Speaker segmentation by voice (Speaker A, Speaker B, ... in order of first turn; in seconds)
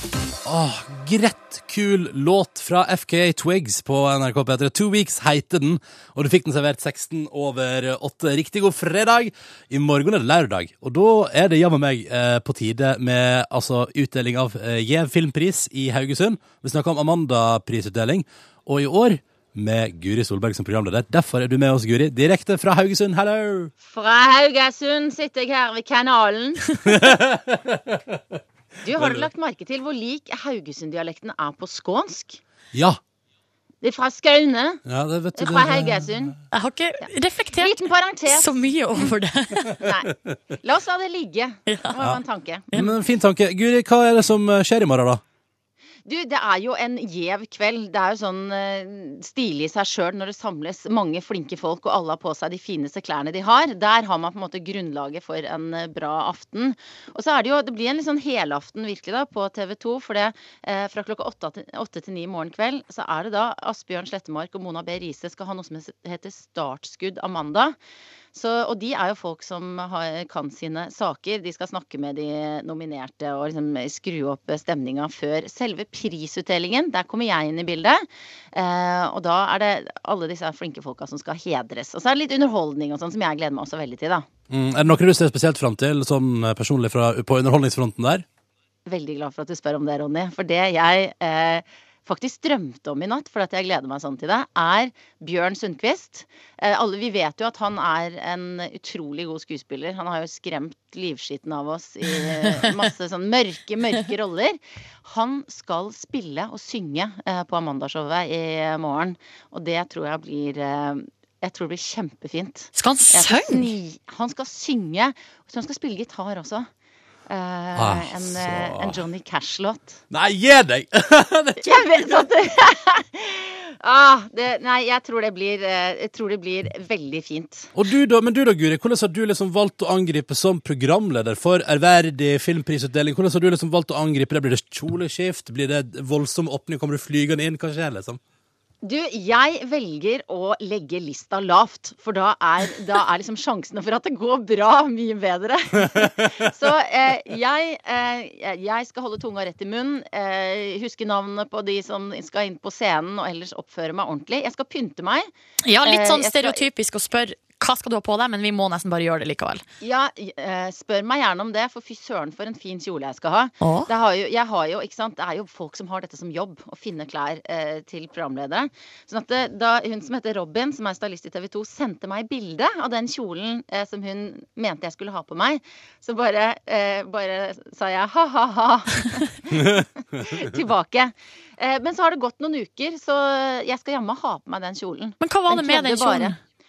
Speaker A: 0.5-23.7, 26.9-28.2, 28.9-29.3, 32.7-33.0, 34.9-36.4, 42.7-45.2, 84.5-88.2, 117.8-119.0, 120.1-122.2, 127.8-138.2, 146.0-146.4
Speaker B: 23.8-26.8, 28.8-32.4, 33.8-34.8, 35.4-36.4, 37.6-39.1, 39.7-42.7, 46.0-67.8, 68.3-84.3, 88.9-116.7, 117.3-120.0, 121.6-127.7, 138.8-155.3, 155.8-156.7, 159.8-186.3
Speaker C: 36.5-39.8, 41.7-42.1, 112.8-113.7, 155.6-159.6, 163.6-163.9, 185.2-186.4